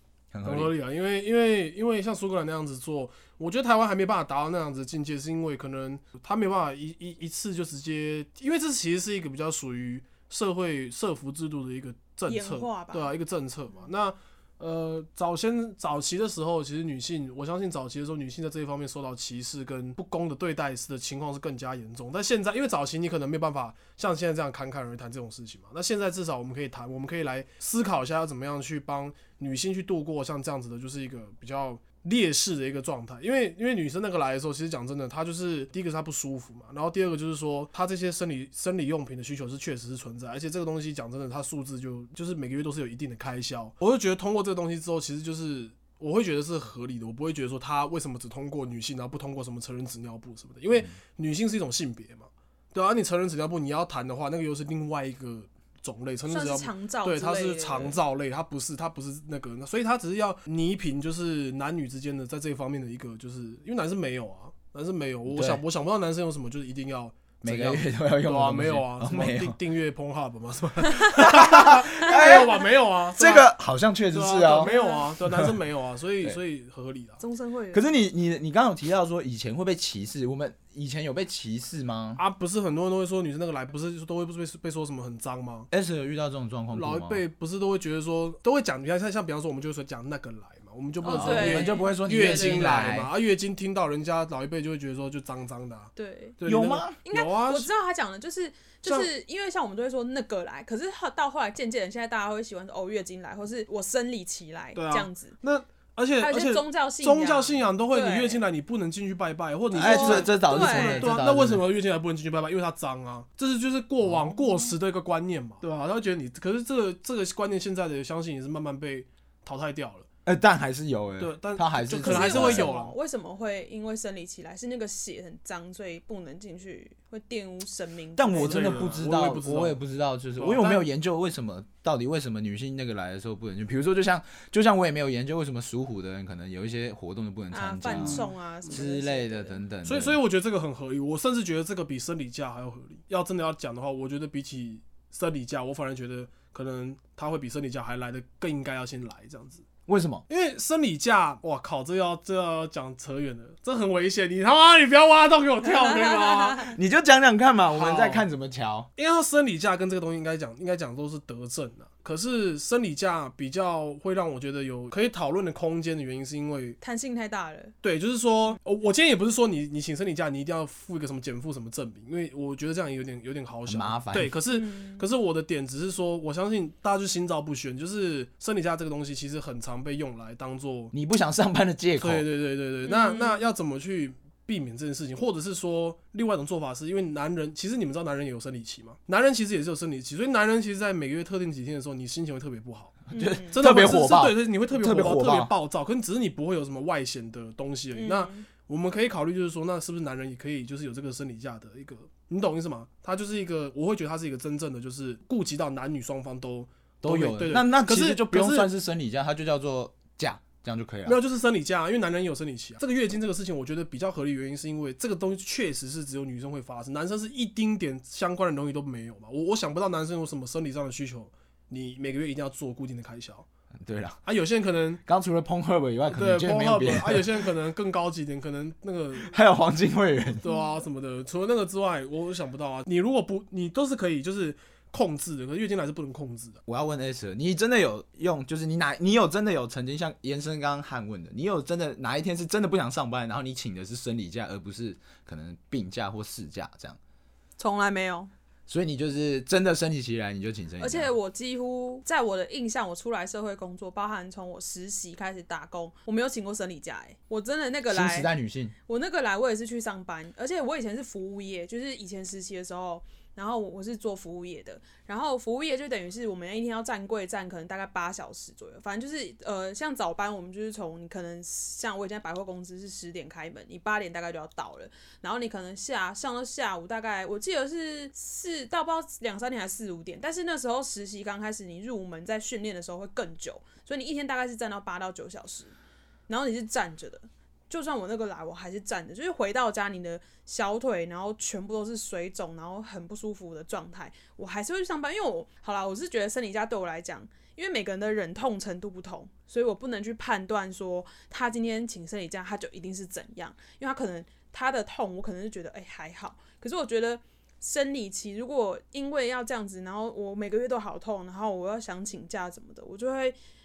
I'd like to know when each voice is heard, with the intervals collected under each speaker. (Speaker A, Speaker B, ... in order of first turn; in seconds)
Speaker A: 0.3-0.7, 65.3-65.6, 67.4-69.6, 71.1-72.6, 73.1-74.8, 77.7-82.2, 85.7-87.2, 91.1-93.1, 96.5-97.0, 109.7-111.7, 120.3-122.7, 128.2-140.2, 149.9-150.2, 156.7-158.9, 173.7-174.3, 180.9-182.2, 193.1-195.5, 207.0-211.2, 223.8-224.2, 225.1-227.3, 229.3-230.4, 236.7-247.0, 248.7-251.1, 257.9-258.7
Speaker B: 0.5-73.5, 74.1-77.2, 82.2-85.7, 86.7-97.7, 104.8-120.1, 121.2-123.0, 128.3-129.8, 130.4-130.8, 137.9-138.8, 139.8-149.7, 150.3-156.8, 157.7-158.3, 159.0-166.8, 167.8-180.9, 182.0-208.7, 211.1-223.5, 224.3-225.0, 226.1-229.3, 230.4-236.6
Speaker C: 12.3-13.2, 56.3-58.0, 74.5-75.1, 77.2-77.9, 91.0-92.8, 96.0-96.4, 97.0-105.3, 106.2-108.4, 109.8-111.1, 122.0-129.0, 137.5-139.6, 166.8-167.8, 174.5-175.1, 182.9-183.4, 193.1-193.6, 197.9-198.5, 230.4-230.8, 247.6-248.3, 250.8-258.3, 258.9-285.7, 286.3-313.4